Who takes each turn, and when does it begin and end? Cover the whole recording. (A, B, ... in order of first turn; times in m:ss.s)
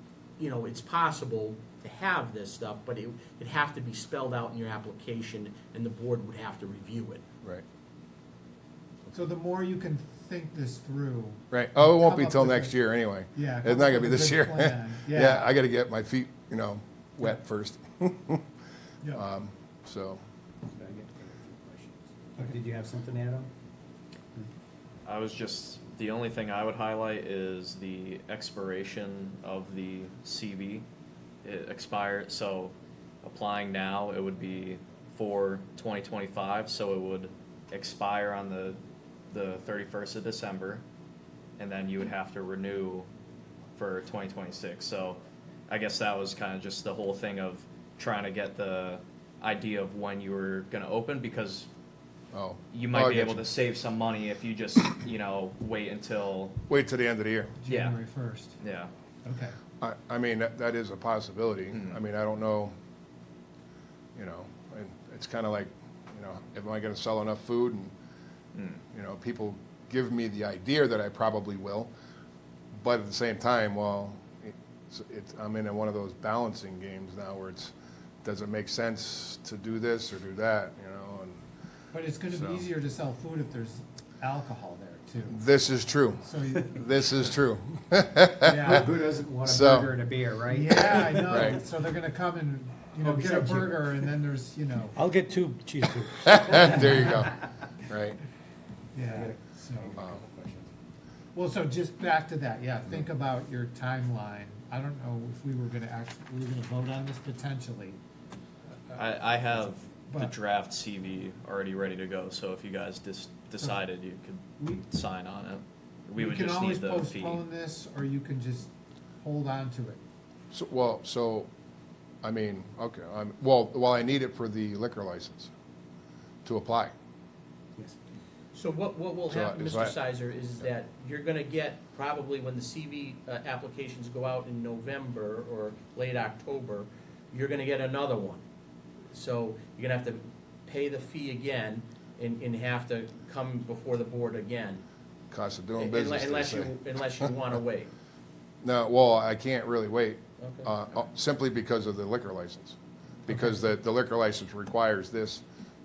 0:00.4-0:07.2 A
0:09.1-0:12.8 B
0:11.5-0:18.4 C
0:13.3-0:15.5 B
0:19.1-0:20.2 C
0:20.7-0:23.5 D
0:25.0-0:30.9 E
0:31.4-0:40.8 E
0:41.6-0:43.1 E
0:43.8-0:51.7 E
0:52.3-0:53.4 C
0:52.7-0:56.6 E
0:56.7-0:57.6 C
0:57.6-0:58.6 B
0:57.7-0:58.0 E
0:58.6-0:58.9 E
0:59.2-0:59.6 B
0:59.8-1:02.7 C
1:01.7-1:02.0 E
1:04.2-1:07.9 C
1:08.6-1:08.8 E
1:08.9-1:11.9 C
1:12.7-1:21.4 C
1:21.9-1:25.4 B
1:22.3-1:22.6 C
1:25.3-1:28.8 C
1:26.2-1:26.8 B
1:28.5-1:28.9 B
1:28.6-1:31.6 D
1:29.4-1:30.0 C
1:30.5-1:35.0 B
1:31.3-1:31.6 C
1:33.0-1:34.1 D
1:35.0-1:37.2 D
1:36.2-1:37.4 C
1:36.7-1:37.3 B
1:37.9-1:38.2 C
1:38.9-1:39.9 B
1:39.0-1:40.7 D
1:41.4-1:48.0 B
1:48.9-1:57.4 E
1:49.5-1:50.4 B
1:54.6-1:54.8 B
1:56.2-2:00.0 B
2:00.5-2:01.5 C
2:02.2-2:05.5 C
2:06.4-2:06.9 C
2:08.5-2:18.4 A
2:09.3-2:10.0 C
2:19.1-2:24.8 A
2:25.3-2:27.3 C
2:25.8-2:27.9 A
2:28.6-2:35.4 C
2:30.4-2:30.7 A